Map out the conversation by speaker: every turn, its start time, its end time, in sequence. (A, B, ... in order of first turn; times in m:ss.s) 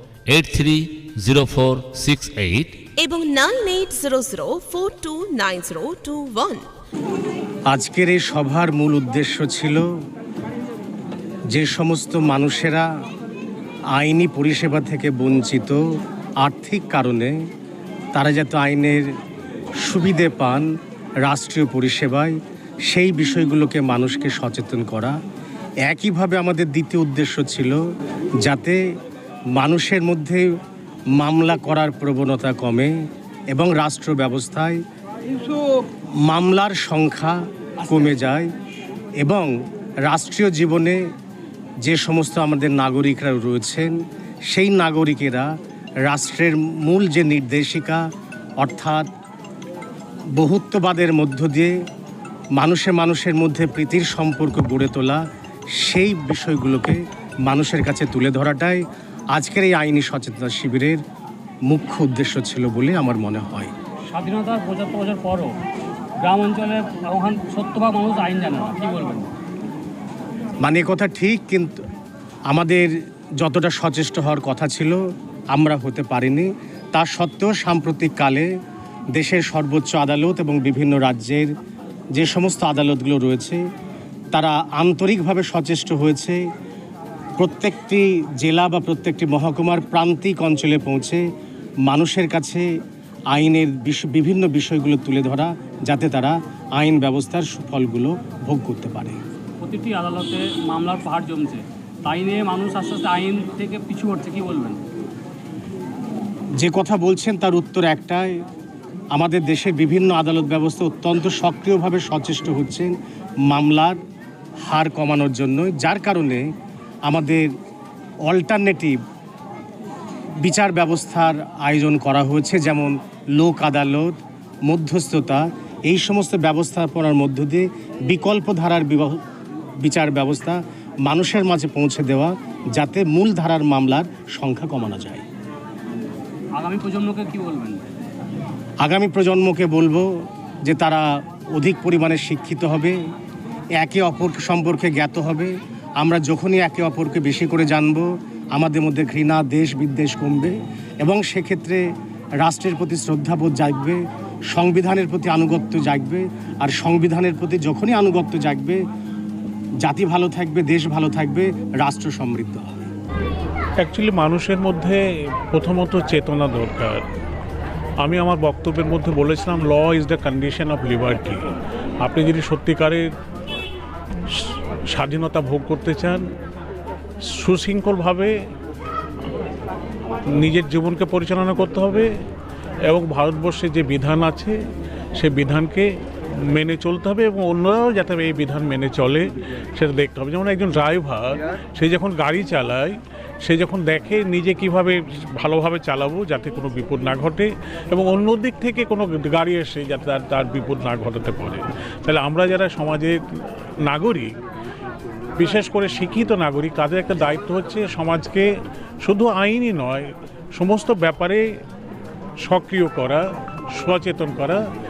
0:00.3-0:02.8 A
0:03.0-0:06.6 B
0:07.7-0:09.9 C
0:11.5-0:12.8 C
0:14.0-0:15.8 C
0:16.4-0:17.3 C
0:18.1-0:19.0 C
0:19.8-0:20.7 C
0:21.2-0:22.4 C
0:22.9-0:25.2 C
0:25.8-0:27.8 C
0:28.4-0:28.8 C
0:29.6-0:30.4 C
0:31.2-0:32.9 C
0:33.5-0:34.8 C
0:36.3-0:38.5 C
0:39.2-0:39.5 C
0:40.1-0:41.0 C
0:41.8-0:43.9 C
0:44.5-0:45.5 C
0:46.1-0:48.0 C
0:48.6-0:49.1 C
0:50.4-0:51.7 C
0:52.6-0:55.2 C
0:55.8-0:58.8 C
0:59.3-1:01.0 C
1:01.7-1:03.7 C
1:04.1-1:05.5 D
1:06.2-1:09.3 D
1:10.6-1:11.8 C
1:12.5-1:15.0 C
1:15.5-1:18.5 C
1:19.1-1:21.5 C
1:22.2-1:23.6 C
1:24.3-1:26.4 C
1:27.4-1:31.2 C
1:31.8-1:32.6 C
1:33.3-1:39.2 C
1:39.6-1:44.8 D
1:46.6-1:48.3 C
1:49.1-1:52.9 C
1:53.5-1:54.0 C
1:54.7-1:56.4 C
1:57.0-1:57.5 C
1:58.2-1:59.0 C
2:00.4-2:09.2 C
2:09.8-2:15.2 C
2:16.6-2:17.8 D
2:18.8-2:20.0 C
2:20.6-2:23.0 C
2:23.8-2:31.8 C
2:32.4-2:34.0 C
2:34.5-2:38.8 C
2:39.8-2:42.7 C
2:43.8-2:45.0 E
2:45.5-2:47.0 E
2:48.0-2:51.4 E
2:52.0-2:53.0 E
2:54.9-2:56.2 E
2:57.4-2:58.3 E
3:00.3-3:02.1 E
3:02.9-3:04.5 E
3:05.2-3:05.9 E
3:06.6-3:23.2 E
3:23.9-3:24.3 E
3:25.4-3:28.4 E
3:29.0-3:31.4 E
3:32.4-3:33.2 E
3:33.7-3:34.6 E